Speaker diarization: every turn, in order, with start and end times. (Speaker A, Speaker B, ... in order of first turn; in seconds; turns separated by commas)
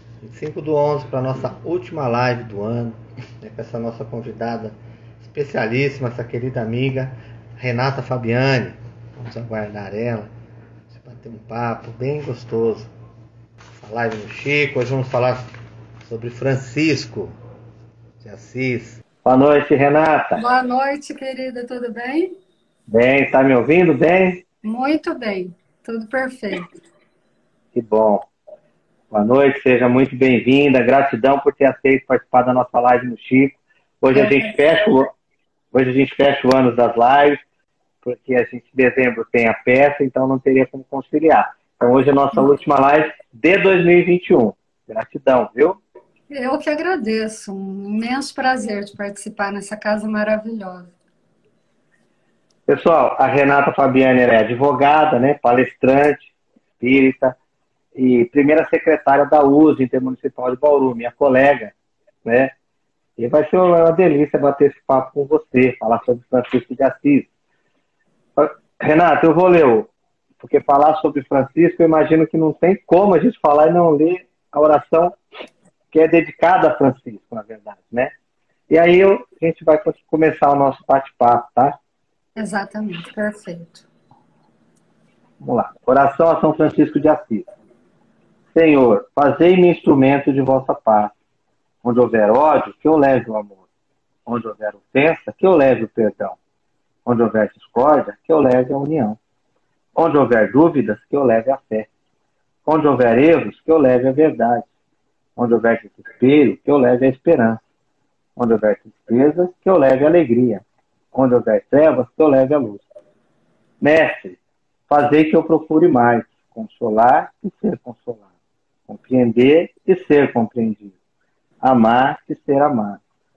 Speaker A: 0.2-10.3, Speaker A: 10.9-12.9, Speaker A: 13.8-15.5, Speaker A: 16.0-17.4, Speaker A: 18.2-19.0, Speaker B: 19.2-20.4, Speaker C: 20.4-22.3, Speaker B: 22.9-24.4, Speaker C: 24.6-26.7, Speaker B: 27.7-28.3, Speaker B: 29.1-35.1, Speaker C: 34.1-34.6, Speaker B: 35.7-37.4, Speaker B: 38.0-45.8, Speaker C: 46.3-50.9, Speaker B: 52.7-57.4, Speaker B: 57.9-61.7, Speaker B: 62.2-62.5, Speaker B: 63.2-67.3, Speaker B: 68.3-75.2, Speaker B: 75.9-78.1, Speaker B: 78.7-81.8, Speaker C: 82.3-83.9, Speaker B: 85.4-87.5, Speaker B: 88.5-91.1, Speaker B: 91.8-93.6, Speaker B: 94.2-96.4, Speaker B: 97.0-99.2, Speaker B: 100.0-101.9, Speaker B: 102.7-104.7, Speaker B: 105.4-107.6, Speaker B: 108.4-112.8, Speaker B: 113.8-118.2, Speaker B: 118.9-120.9, Speaker B: 121.6-123.0